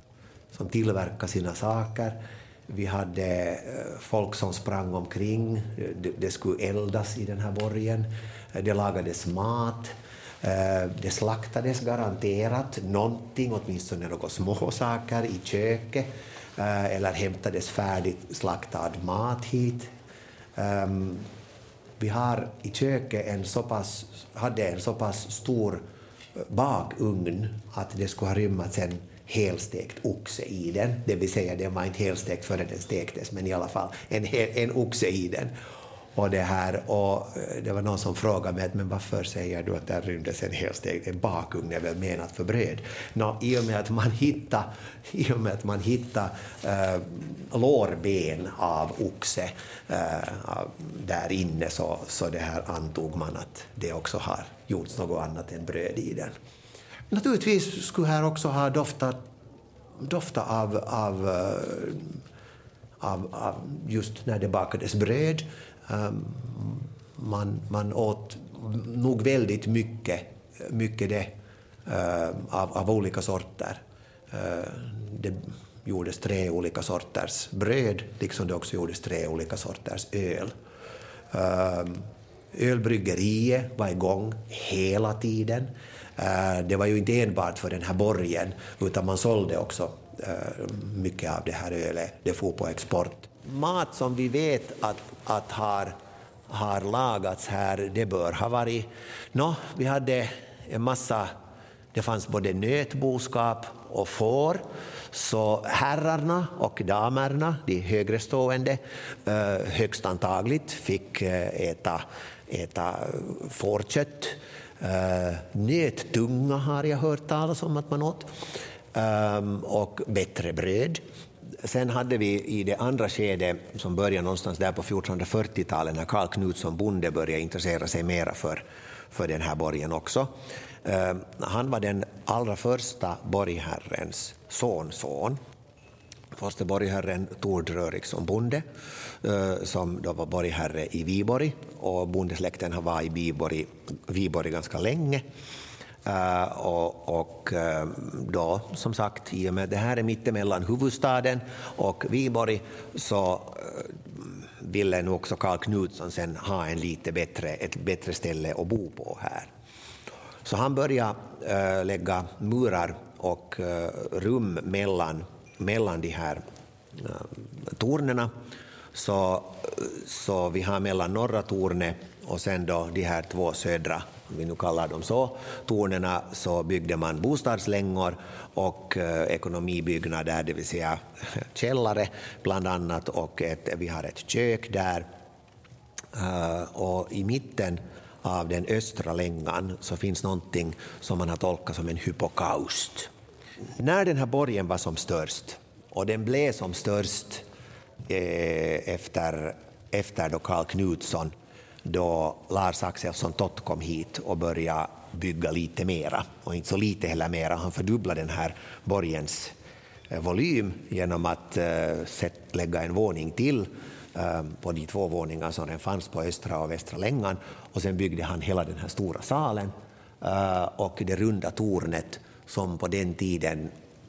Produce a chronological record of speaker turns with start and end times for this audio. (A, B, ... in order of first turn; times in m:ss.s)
0:00.5-0:19.9 A
0:20.6-0:21.3 A
0:22.0-0:25.8 A
0:26.4-0:35.6 A
0:36.1-0:56.3 A
0:57.1-0:59.2 A
1:00.0-1:02.2 A
1:03.0-1:11.4 A
1:11.9-1:13.8 A
1:14.3-1:20.6 A
1:21.3-1:36.0 A
1:36.5-1:41.3 A
1:41.9-1:58.3 A
1:58.9-2:01.0 A
2:01.6-2:15.4 A
2:16.4-2:18.6 A
2:19.2-2:25.2 A
2:26.0-2:39.5 A
2:40.4-2:46.4 A
2:46.9-2:48.3 A
2:48.9-3:05.1 A
3:06.1-3:13.1 A
3:13.8-3:17.4 A
3:18.1-3:21.3 A
3:21.8-3:29.6 A
3:30.1-3:43.7 A